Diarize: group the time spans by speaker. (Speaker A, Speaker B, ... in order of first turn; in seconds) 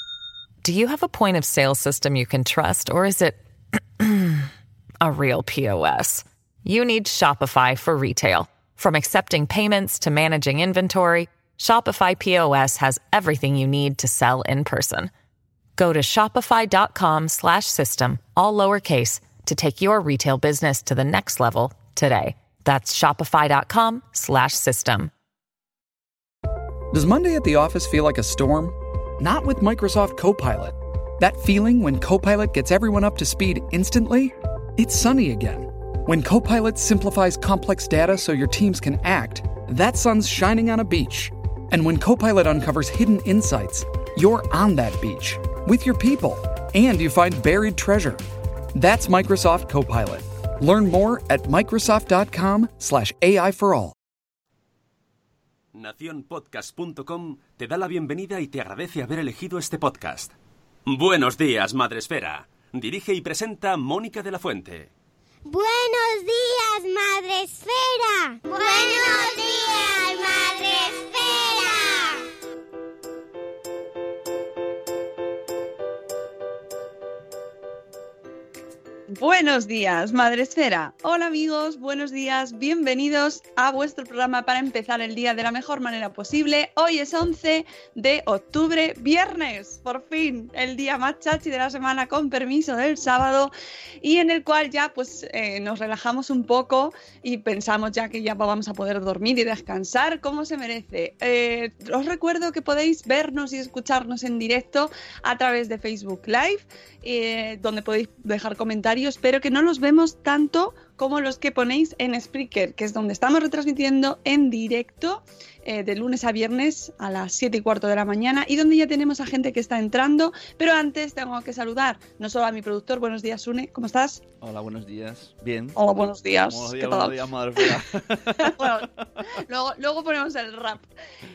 Speaker A: 0.6-3.4, 4.0-4.5, 5.0-15.1, 15.8-25.1
Speaker B: 26.9-48.2, 48.7-53.9
Speaker C: 55.7-60.3, 60.9-64.9
Speaker D: 65.4-72.2
Speaker E: 79.1-124.2, 125.8-127.8, 128.4-130.8
Speaker F: 124.4-125.8, 126.5-128.9